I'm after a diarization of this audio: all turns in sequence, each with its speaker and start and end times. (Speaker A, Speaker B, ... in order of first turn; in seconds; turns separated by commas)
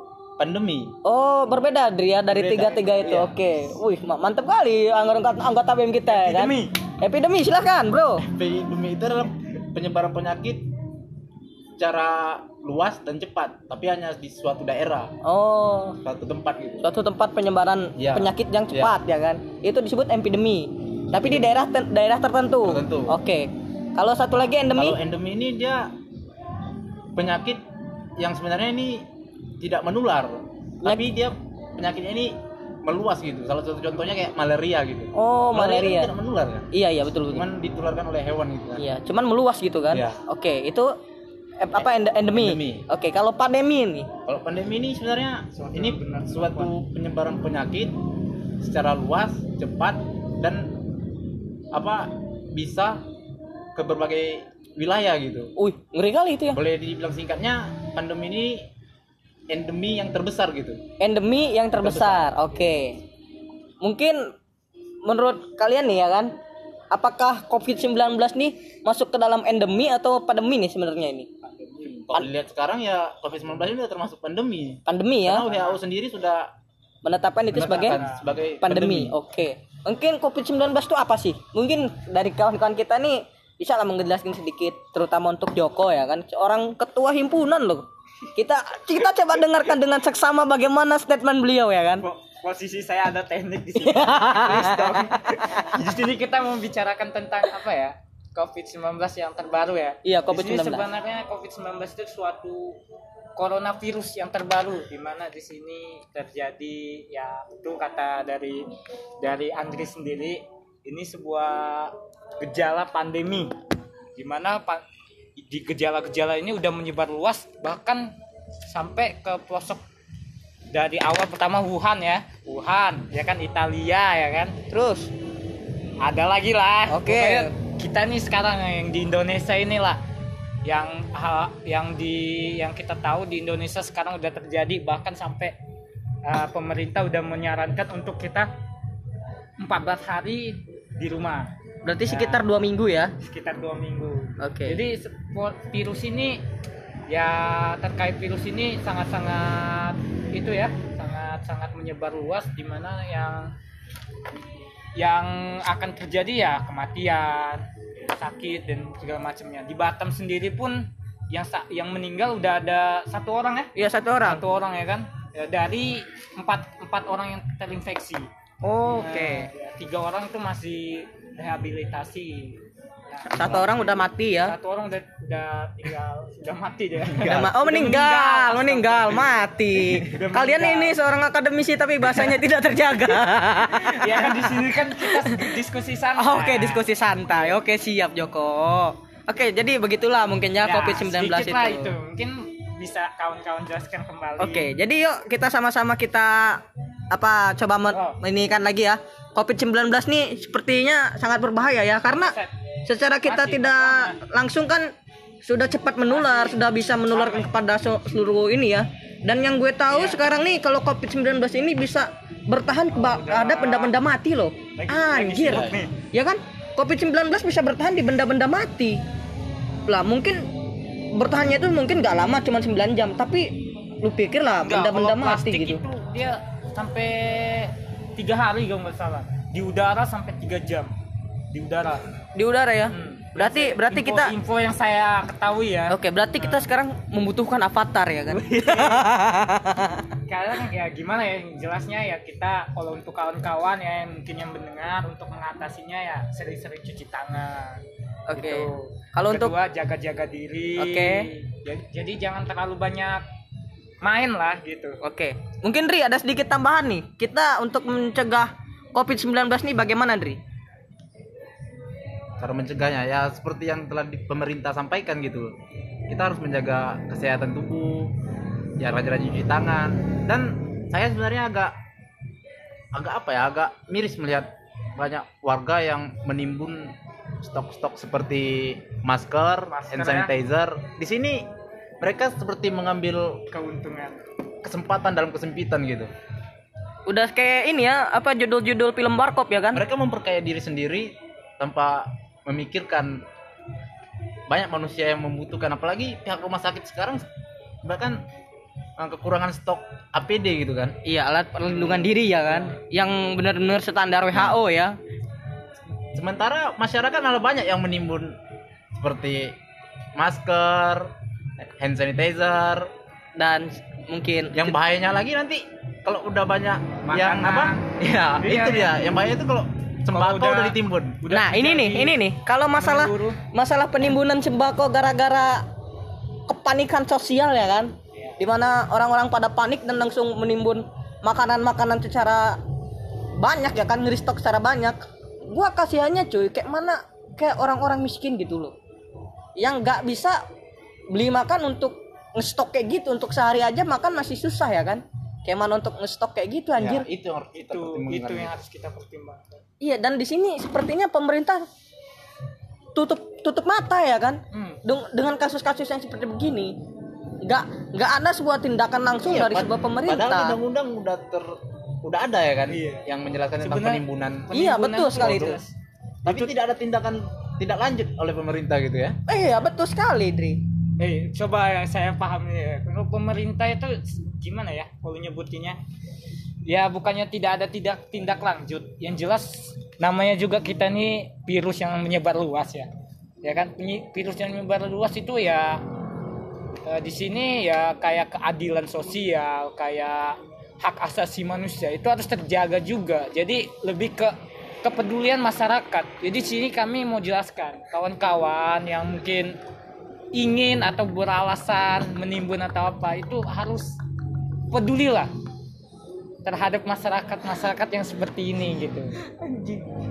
Speaker A: 0.4-0.9, Speaker B: 1.0-8.2, Speaker A: 2.3-3.3, Speaker A: 6.2-6.5, Speaker C: 6.2-6.7, Speaker A: 8.3-10.7, Speaker A: 11.8-15.1, Speaker B: 15.2-16.0, Speaker A: 16.0-16.9, Speaker B: 16.8-25.0, Speaker A: 18.0-18.9, Speaker A: 21.1-21.5, Speaker A: 22.6-23.2, Speaker A: 24.7-25.9, Speaker A: 27.1-27.6, Speaker A: 28.2-29.1, Speaker A: 29.6-36.7, Speaker B: 35.1-36.1, Speaker B: 36.7-37.4, Speaker A: 37.3-38.8, Speaker B: 38.8-40.9, Speaker A: 39.9-40.2, Speaker B: 41.6-44.1, Speaker A: 41.8-42.8, Speaker A: 44.2-48.0, Speaker C: 45.5-46.7, Speaker A: 48.6-50.7, Speaker A: 51.7-53.0, Speaker A: 53.8-55.5, Speaker B: 55.6-56.6, Speaker A: 56.5-58.6, Speaker A: 59.5-60.8, Speaker B: 61.0-63.0, Speaker A: 61.8-62.5, Speaker B: 63.8-64.3, Speaker B: 65.0-66.3, Speaker B: 66.9-71.3, Speaker A: 71.8-76.5, Speaker B: 74.9-75.5, Speaker C: 75.4-75.8, Speaker B: 77.0-78.0, Speaker A: 77.5-79.1, Speaker C: 77.8-78.2, Speaker B: 78.6-92.0, Speaker C: 92.0-102.8, Speaker B: 93.8-95.7, Speaker B: 100.0-100.9, Speaker C: 103.3-108.7, Speaker C: 109.2-113.5, Speaker C: 114.2-114.8, Speaker C: 115.4-118.1, Speaker C: 118.7-119.8, Speaker C: 120.7-124.6, Speaker B: 124.7-125.1, Speaker C: 126.0-130.0, Speaker B: 126.9-127.5, Speaker C: 130.6-135.6, Speaker C: 136.2-138.5, Speaker C: 139.6-141.5, Speaker B: 141.8-143.1, Speaker C: 142.1-142.4, Speaker C: 143.2-146.4, Speaker B: 144.4-144.8, Speaker C: 147.1-153.5, Speaker C: 154.9-168.3, Speaker B: 163.7-164.4, Speaker B: 168.6-169.5, Speaker C: 169.0-179.3, Speaker B: 173.2-174.5, Speaker A: 177.1-177.5, Speaker B: 177.2-185.6, Speaker C: 180.0-180.9, Speaker C: 183.7-186.9, Speaker B: 186.2-191.9, Speaker C: 190.6-194.7, Speaker B: 194.4-204.9, Speaker C: 197.9-198.2, Speaker C: 202.1-202.5, Speaker C: 203.2-204.2, Speaker B: 205.4-219.0, Speaker C: 206.1-207.5, Speaker C: 209.9-210.2, Speaker C: 212.9-214.0, Speaker C: 214.7-215.9, Speaker A: 215.5-215.8, Speaker B: 219.9-220.5, Speaker B: 221.1-225.8, Speaker C: 224.6-230.9, Speaker C: 231.5-232.0, Speaker B: 232.3-234.3, Speaker C: 232.9-236.7, Speaker B: 235.9-240.1, Speaker C: 238.4-239.1, Speaker C: 240.3-247.8, Speaker B: 248.3-249.5, Speaker C: 248.3-253.2, Speaker B: 250.8-251.3, Speaker C: 254.0-255.0, Speaker B: 255.0-260.4, Speaker A: 262.4-265.5, Speaker A: 266.1-268.1, Speaker A: 268.8-271.7, Speaker A: 272.9-281.5, Speaker C: 279.7-280.3, Speaker A: 282.0-283.4, Speaker C: 283.5-284.2, Speaker A: 284.6-286.1, Speaker B: 287.1-289.8, Speaker A: 289.7-293.2, Speaker A: 294.5-297.2, Speaker A: 297.8-298.2, Speaker A: 299.0-300.9, Speaker B: 301.0-305.0, Speaker A: 306.1-308.4, Speaker A: 308.9-309.6, Speaker A: 310.2-312.9, Speaker B: 313.4-314.8, Speaker A: 314.5-321.2, Speaker C: 317.0-317.9, Speaker C: 318.4-319.1, Speaker C: 320.1-322.2, Speaker B: 321.3-325.6, Speaker C: 322.7-323.4, Speaker B: 326.5-332.6, Speaker B: 333.4-338.7, Speaker B: 339.6-340.4, Speaker B: 341.1-347.1, Speaker A: 346.8-348.5, Speaker C: 347.5-349.6, Speaker B: 349.8-351.6, Speaker B: 352.9-356.8, Speaker C: 354.5-354.8, Speaker B: 357.4-360.6, Speaker A: 359.2-364.5, Speaker C: 362.7-363.1, Speaker C: 363.6-365.7, Speaker B: 364.5-365.6, Speaker A: 365.2-365.6, Speaker A: 366.2-369.2, Speaker B: 369.3-370.6, Speaker C: 371.0-375.8, Speaker C: 376.6-382.9, Speaker C: 383.4-385.8, Speaker C: 386.8-399.6, Speaker C: 400.3-403.9, Speaker C: 404.7-405.3, Speaker C: 406.4-409.1, Speaker B: 409.3-409.9